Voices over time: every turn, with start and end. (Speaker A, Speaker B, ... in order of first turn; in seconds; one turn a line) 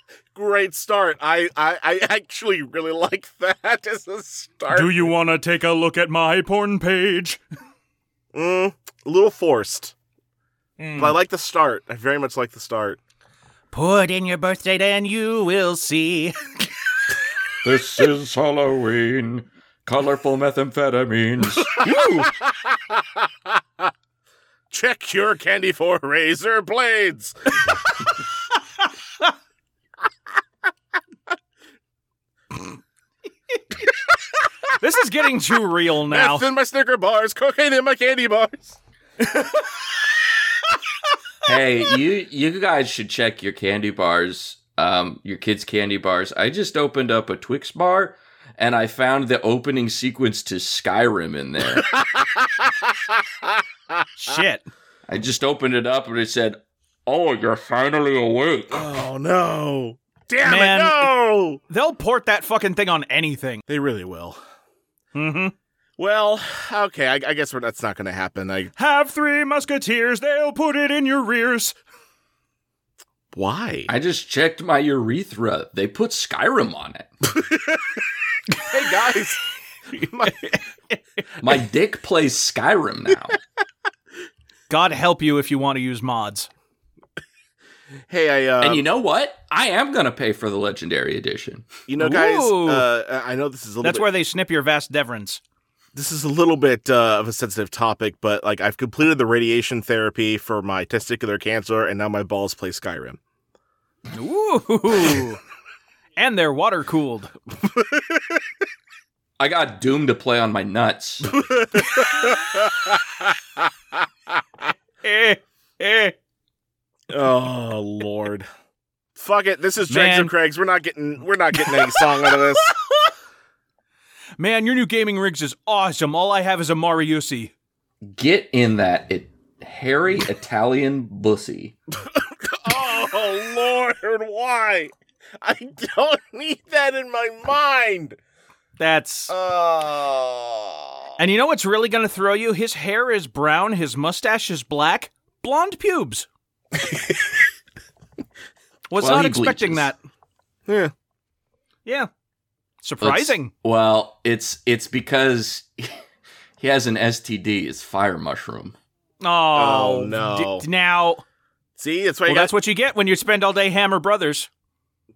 Speaker A: 0.3-5.1
Speaker B: 4.7-7.4
Speaker A: 8.3-9.9
Speaker B: 10.8-11.2
Speaker A: 11.0-13.0
Speaker B: 13.7-16.4
Speaker C: 17.6-21.8
Speaker A: 21.7-23.9
Speaker B: 21.8-22.3
Speaker A: 24.7-27.4
Speaker B: 34.7-36.4
Speaker A: 36.0-40.0
Speaker C: 41.4-51.9
Speaker A: 51.8-53.6
Speaker B: 54.2-54.7
Speaker C: 55.1-58.9
Speaker A: 58.7-61.6
Speaker B: 60.4-61.1
Speaker B: 61.7-63.6
Speaker A: 63.7-64.4
Speaker B: 65.1-65.5
Speaker A: 66.0-68.7
Speaker B: 68.8-71.8
Speaker A: 73.3-73.9
Speaker C: 73.9-77.1
Speaker A: 77.3-79.4
Speaker A: 80.0-80.5
Speaker B: 80.2-81.0
Speaker C: 81.4-83.4
Speaker B: 84.7-86.5
Speaker A: 88.1-88.8
Speaker C: 88.6-91.7
Speaker A: 91.9-94.0
Speaker B: 92.0-92.9
Speaker B: 93.8-95.4
Speaker A: 95.9-103.2
Speaker B: 104.1-105.4
Speaker B: 106.2-107.3
Speaker A: 107.5-108.4
Speaker C: 109.4-111.3
Speaker A: 111.3-113.6
Speaker B: 115.0-116.2
Speaker A: 117.1-118.5
Speaker A: 119.2-122.7
Speaker B: 119.9-120.3
Speaker B: 121.6-123.1
Speaker B: 124.4-127.5
Speaker C: 128.1-131.7
Speaker A: 132.0-138.2
Speaker B: 138.8-139.3
Speaker A: 139.3-141.1
Speaker B: 141.2-146.3
Speaker A: 146.8-147.3
Speaker B: 148.9-150.0
Speaker C: 149.0-149.9
Speaker A: 150.7-150.9
Speaker B: 152.8-153.5
Speaker C: 153.0-156.0
Speaker C: 156.6-158.8
Speaker B: 159.2-161.2
Speaker A: 159.5-160.7
Speaker A: 161.8-162.5
Speaker B: 162.3-164.5